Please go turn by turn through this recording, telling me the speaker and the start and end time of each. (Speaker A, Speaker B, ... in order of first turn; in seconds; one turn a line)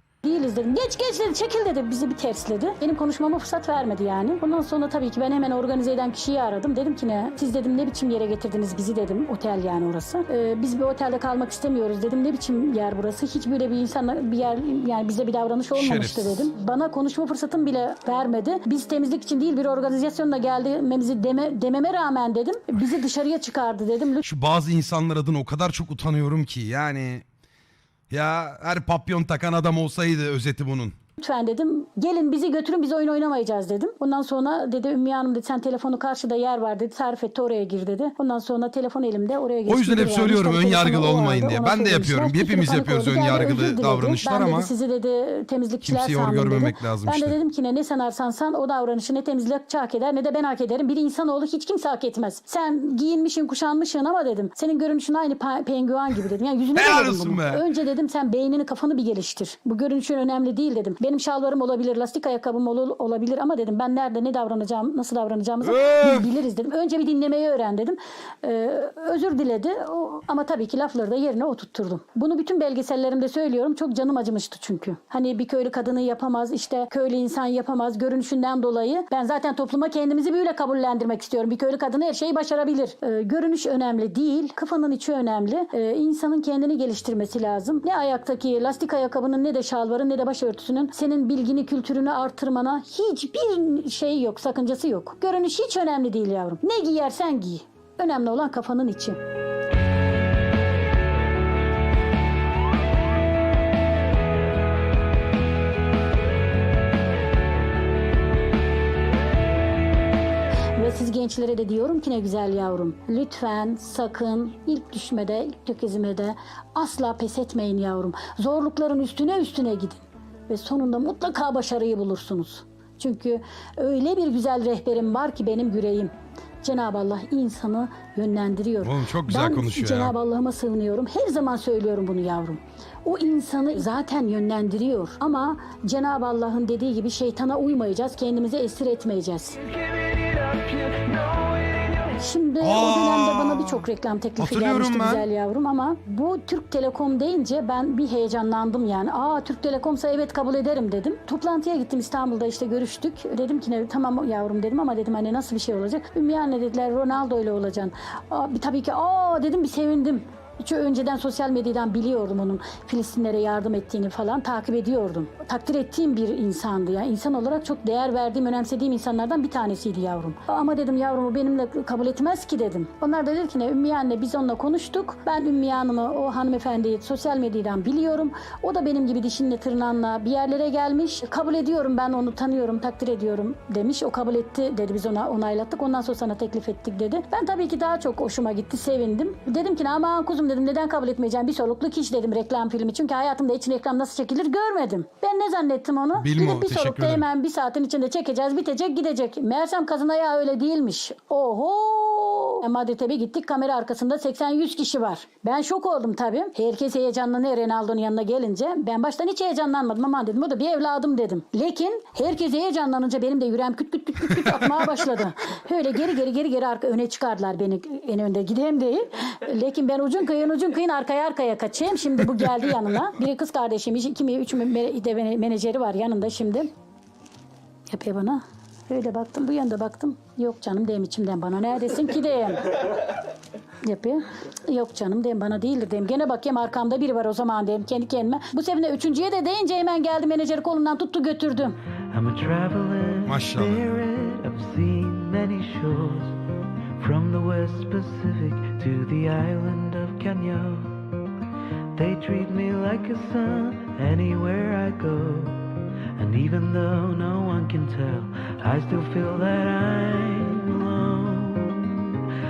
Speaker A: 0.2-24.2
Speaker B: 15.7-16.5
Speaker B: 24.2-27.2
Speaker B: 28.1-30.9
Speaker A: 31.2-99.2
Speaker B: 39.6-44.7
Speaker B: 45.8-47.4
Speaker B: 56.7-57.6
Speaker B: 65.6-66.3
Speaker A: 110.8-139.6
Speaker B: 128.8-130.1
Speaker A: 142.1-226.7
Speaker B: 142.6-143.8
Speaker B: 144.4-145.2
Speaker B: 196.1-197.2
Speaker A: 227.9-232.8
Speaker A: 233.8-241.8
Speaker C: 242.1-246.3
Speaker B: 243.2-243.9
Speaker C: 247.0-251.0
Speaker C: 251.9-262.0